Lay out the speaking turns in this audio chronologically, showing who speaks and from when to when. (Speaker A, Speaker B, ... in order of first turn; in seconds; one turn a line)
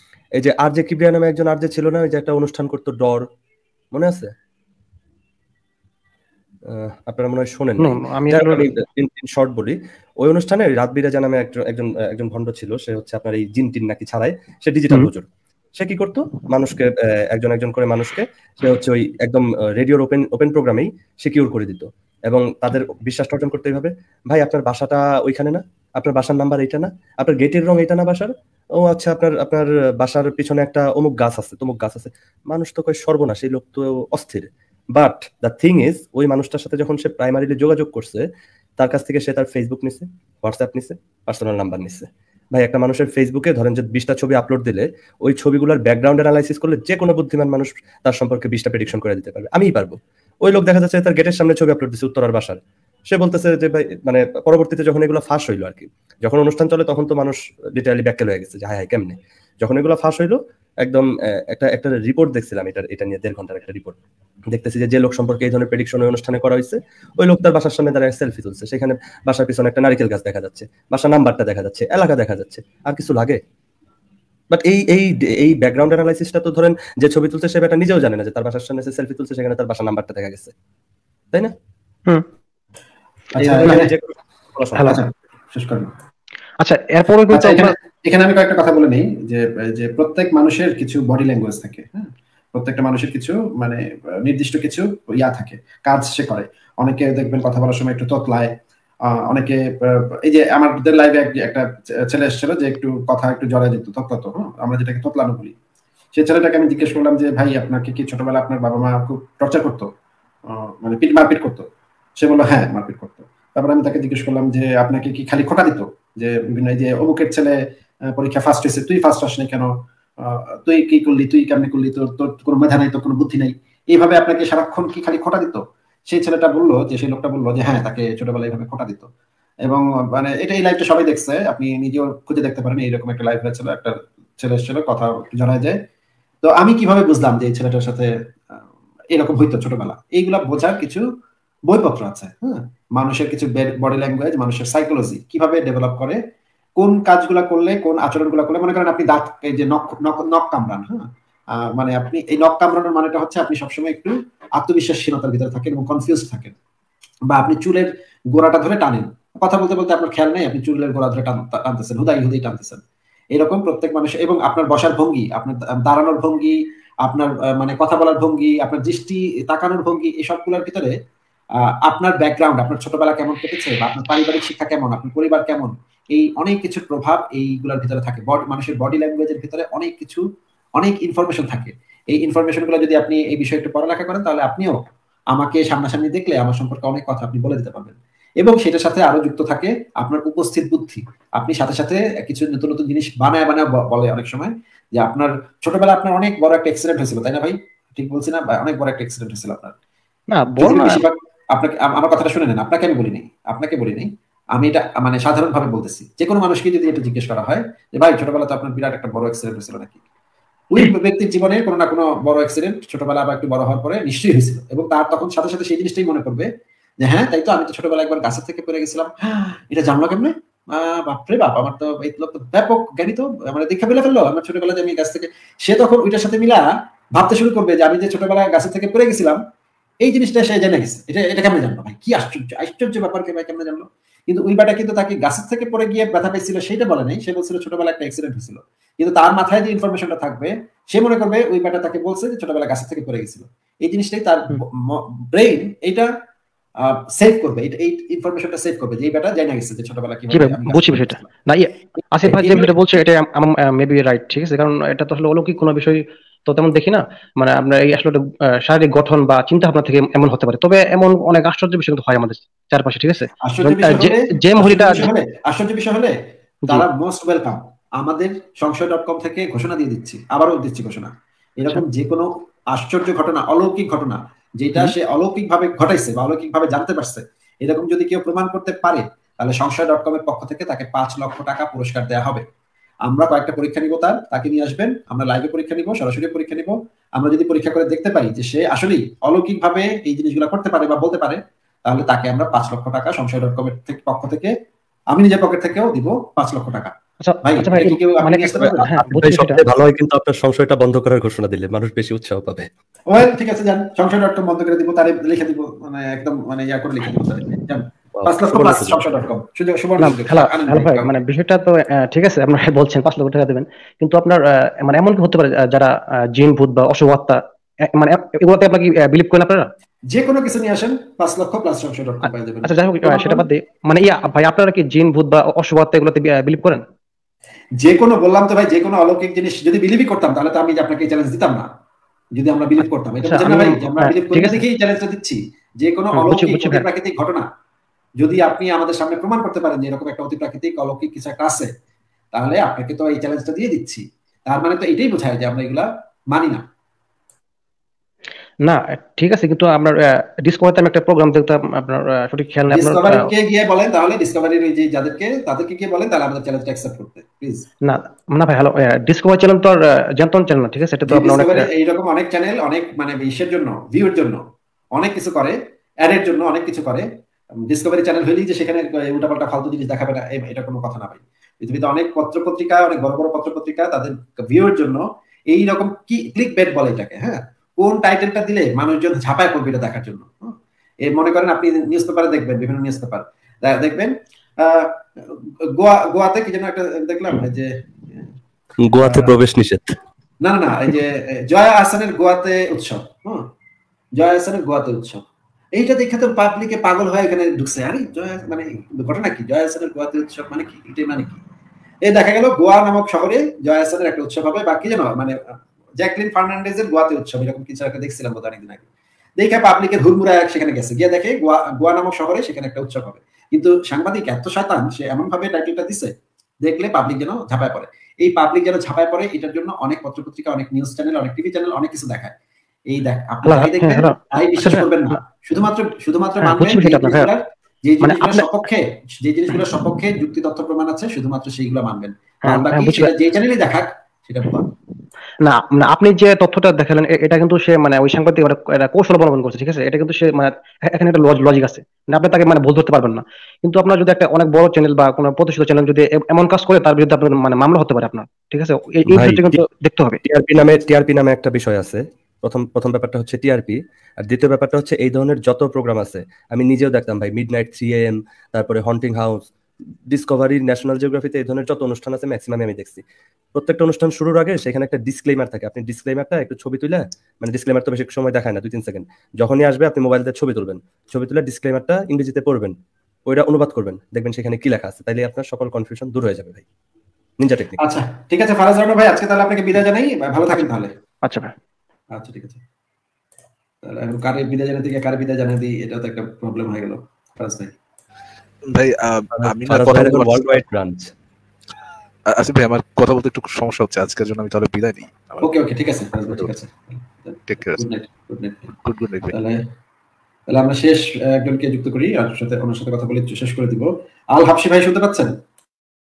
Speaker A: 0.4-3.2
Speaker A: 3.9-4.3
Speaker A: 6.7-15.3
Speaker B: 7.8-8.7
Speaker A: 15.8-38.2
Speaker A: 38.8-52.6
Speaker A: 53.1-64.0
Speaker A: 64.5-73.4
Speaker A: 74.5-80.5
Speaker C: 83.4-83.9
Speaker A: 83.4-85.0
Speaker C: 84.9-85.9
Speaker B: 86.6-87.7
Speaker C: 87.3-98.5
Speaker C: 99.3-105.5
Speaker C: 106.1-109.9
Speaker C: 110.5-111.7
Speaker C: 112.2-117.6
Speaker C: 118.1-129.1
Speaker C: 129.7-135.8
Speaker C: 136.4-138.6
Speaker C: 139.1-141.0
Speaker C: 141.7-146.2
Speaker C: 146.8-151.1
Speaker C: 151.6-156.5
Speaker C: 157.3-162.8
Speaker C: 163.3-170.9
Speaker C: 171.8-180.2
Speaker C: 180.8-184.8
Speaker C: 185.3-199.7
Speaker B: 200.3-201.0
Speaker C: 200.6-210.0
Speaker C: 210.7-216.5
Speaker C: 217.0-229.4
Speaker C: 230.0-246.1
Speaker C: 246.8-251.3
Speaker B: 250.3-265.1
Speaker C: 252.2-252.7
Speaker C: 263.4-266.1
Speaker C: 266.7-282.4
Speaker C: 283.1-294.5
Speaker C: 295.1-296.9
Speaker B: 297.2-299.6
Speaker C: 297.4-298.9
Speaker A: 298.6-302.7
Speaker C: 303.1-311.1
Speaker A: 308.2-309.2
Speaker B: 310.0-317.4
Speaker B: 317.9-319.7
Speaker C: 320.1-323.4
Speaker B: 322.6-326.8
Speaker C: 327.8-331.7
Speaker C: 332.3-337.4
Speaker B: 333.2-334.6
Speaker B: 336.1-336.9
Speaker C: 338.2-341.7
Speaker C: 342.3-346.6
Speaker B: 348.6-353.3
Speaker C: 352.7-357.6
Speaker B: 357.8-361.7
Speaker C: 361.1-364.4
Speaker C: 364.9-367.1
Speaker C: 367.7-388.3
Speaker A: 388.9-389.9
Speaker C: 389.0-389.4
Speaker C: 390.4-393.4
Speaker C: 394.1-395.2
Speaker C: 395.7-401.4
Speaker C: 402.0-405.4
Speaker C: 406.0-408.8
Speaker C: 409.4-416.1
Speaker C: 416.6-422.3
Speaker C: 422.9-434.7
Speaker B: 423.4-425.1
Speaker B: 426.4-427.3
Speaker B: 428.0-428.6
Speaker B: 429.6-429.8
Speaker B: 432.4-433.1
Speaker B: 435.4-450.2
Speaker A: 449.1-449.6
Speaker A: 450.2-459.4
Speaker A: 460.1-463.0
Speaker A: 463.5-472.7
Speaker A: 473.3-476.6
Speaker A: 477.4-477.8
Speaker C: 477.8-480.9
Speaker B: 481.2-481.5
Speaker C: 482.1-482.6
Speaker C: 483.8-487.7
Speaker D: 488.6-490.6
Speaker A: 489.4-491.1
Speaker D: 492.3-495.6
Speaker C: 495.4-498.7
Speaker D: 496.2-496.5
Speaker D: 497.4-497.9
Speaker D: 498.7-499.4
Speaker C: 499.3-499.6
Speaker C: 500.5-505.3